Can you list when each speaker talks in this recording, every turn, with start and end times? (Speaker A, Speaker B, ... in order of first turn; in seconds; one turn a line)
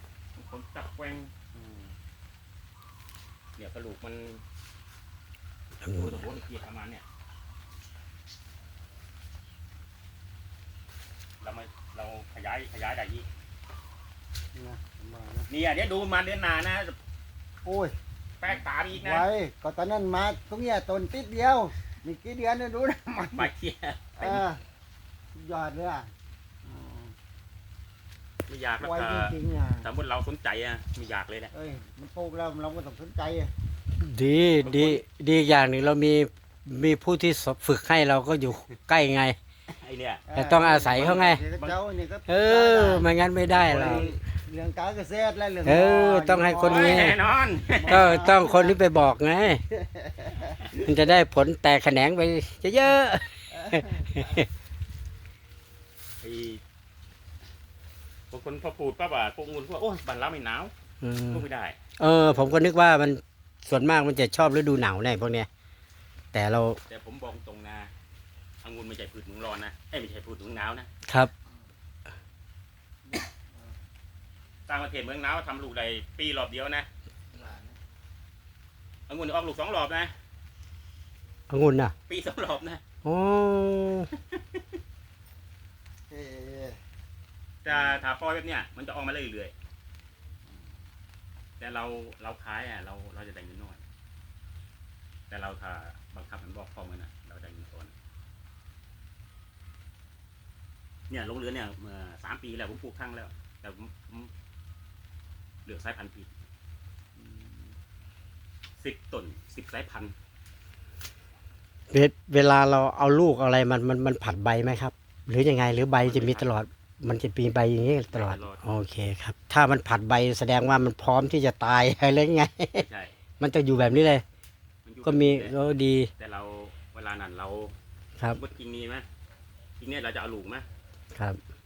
Speaker A: 0.3-1.3
Speaker B: 1.5-1.9
Speaker A: 3.5-4.4
Speaker C: 5.8-6.3
Speaker A: 6.0-7.0
Speaker A: 11.4-13.2
Speaker B: 14.5-15.5
Speaker A: 15.5-16.9
Speaker B: 17.6-17.9
Speaker A: 18.4-19.3
Speaker B: 18.5-23.5
Speaker A: 23.3-24.4
Speaker B: 24.1-24.6
Speaker B: 25.3-26.1
Speaker B: 26.6-27.1
Speaker A: 28.5-31.5
Speaker B: 28.8-29.9
Speaker B: 31.5-33.5
Speaker C: 34.0-39.4
Speaker A: 34.6-35.0
Speaker A: 39.7-40.2
Speaker B: 40.3-47.1
Speaker C: 40.3-41.4
Speaker A: 41.0-41.8
Speaker C: 42.3-44.1
Speaker A: 43.7-44.1
Speaker C: 45.6-47.2
Speaker A: 46.6-48.2
Speaker B: 47.7-48.7
Speaker C: 47.9-49.6
Speaker B: 49.7-50.6
Speaker C: 50.7-54.5
Speaker B: 53.5-54.4
Speaker A: 56.2-56.6
Speaker A: 58.3-60.7
Speaker C: 61.0-61.4
Speaker A: 61.3-61.8
Speaker C: 62.0-65.5
Speaker C: 66.3-66.8
Speaker A: 66.9-67.9
Speaker A: 68.6-70.9
Speaker B: 73.0-73.8
Speaker A: 74.7-76.9
Speaker B: 77.3-77.8
Speaker A: 79.1-80.1
Speaker C: 81.5-81.9
Speaker A: 82.1-82.8
Speaker C: 83.0-84.1
Speaker A: 84.3-84.6
Speaker B: 86.1-86.8
Speaker A: 87.6-89.5
Speaker B: 87.7-88.0
Speaker A: 91.6-93.8
Speaker A: 95.3-97.9
Speaker A: 101.1-104.3
Speaker A: 105.6-106.3
Speaker B: 107.2-107.7
Speaker A: 108.8-110.1
Speaker C: 111.9-122.8
Speaker A: 116.0-116.5
Speaker A: 118.1-118.6
Speaker A: 122.8-123.1
Speaker C: 123.4-124.2
Speaker A: 124.8-125.5
Speaker C: 125.0-126.1
Speaker A: 126.2-127.7
Speaker A: 128.3-129.0
Speaker A: 129.8-130.6
Speaker C: 131.1-131.4